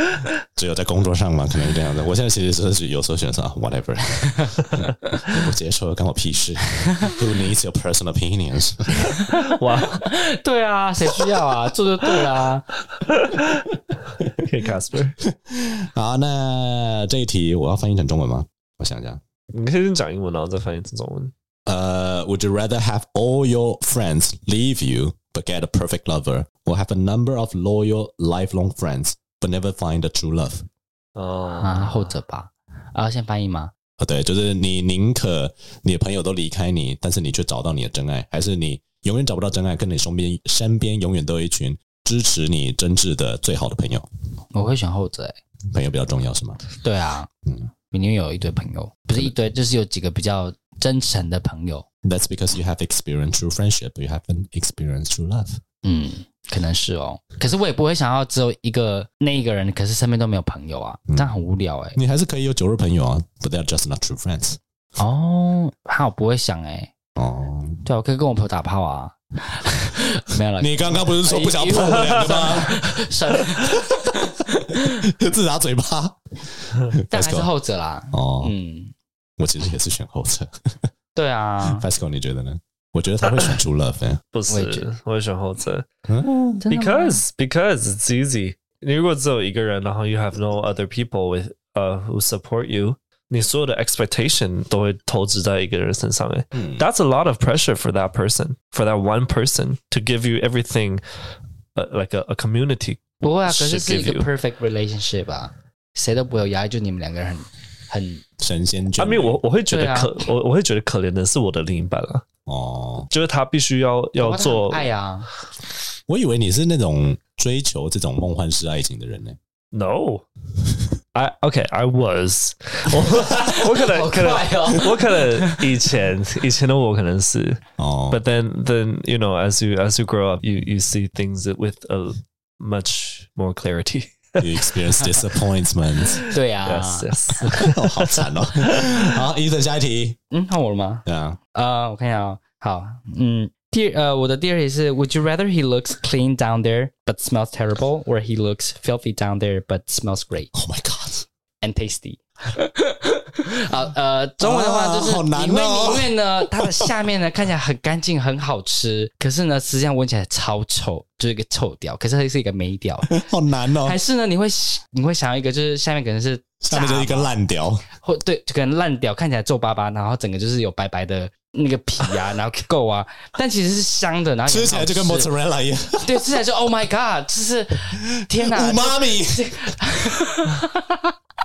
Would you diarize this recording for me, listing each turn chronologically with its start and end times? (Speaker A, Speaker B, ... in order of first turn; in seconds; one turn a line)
Speaker A: 0.5-9.1
Speaker B: 9.1-12.7
Speaker C: 9.5-10.1
Speaker C: 13.1-13.7
Speaker C: 14.2-15.2
Speaker A: 15.2-19.2
Speaker C: 19.5-21.3
Speaker A: 21.7-30.6
Speaker C: 31.1-32.1
Speaker B: 31.5-33.7
Speaker A: 34.0-44.0
Speaker B: 44.5-45.4
Speaker A: 45.7-46.6
Speaker B: 46.8-47.3
Speaker B: 47.9-51.9
Speaker A: 52.0-55.6
Speaker B: 55.8-62.0
Speaker A: 61.1-61.3
Speaker A: 62.0-64.6
Speaker B: 65.0-66.9
Speaker A: 67.2-67.8
Speaker B: 67.8-75.0
Speaker A: 70.6-72.8
Speaker A: 73.7-74.1
Speaker A: 74.9-77.5
Speaker B: 77.1-78.9
Speaker A: 78.1-78.5
Speaker A: 79.4-80.9
Speaker B: 81.1-81.8
Speaker A: 81.6-84.2
Speaker C: 84.3-85.8
Speaker B: 84.5-84.9
Speaker A: 86.1-86.6
Speaker B: 86.6-87.2
Speaker C: 86.7-101.0
Speaker A: 96.5-96.8
Speaker C: 101.8-104.3
Speaker B: 103.2-108.2
Speaker A: 108.4-109.4
Speaker C: 109.0-112.2
Speaker B: 109.7-110.2
Speaker A: 112.5-113.1
Speaker C: 113.1-114.9
Speaker B: 114.2-115.3
Speaker A: 116.1-119.4
Speaker C: 119.7-120.2
Speaker C: 121.1-134.7
Speaker B: 123.0-125.6
Speaker A: 127.8-128.2
Speaker A: 134.4-136.2
Speaker C: 136.1-138.8
Speaker B: 136.2-137.6
Speaker A: 137.5-140.2
Speaker B: 140.3-150.5
Speaker A: 141.1-141.4
Speaker A: 150.5-151.2
Speaker B: 151.6-163.1
Speaker A: 154.4-156.8
Speaker A: 163.1-164.0
Speaker B: 163.8-167.3
Speaker A: 166.6-167.8
Speaker B: 168.0-175.3
Speaker A: 174.5-176.2
Speaker B: 176.0-181.1
Speaker A: 178.2-179.6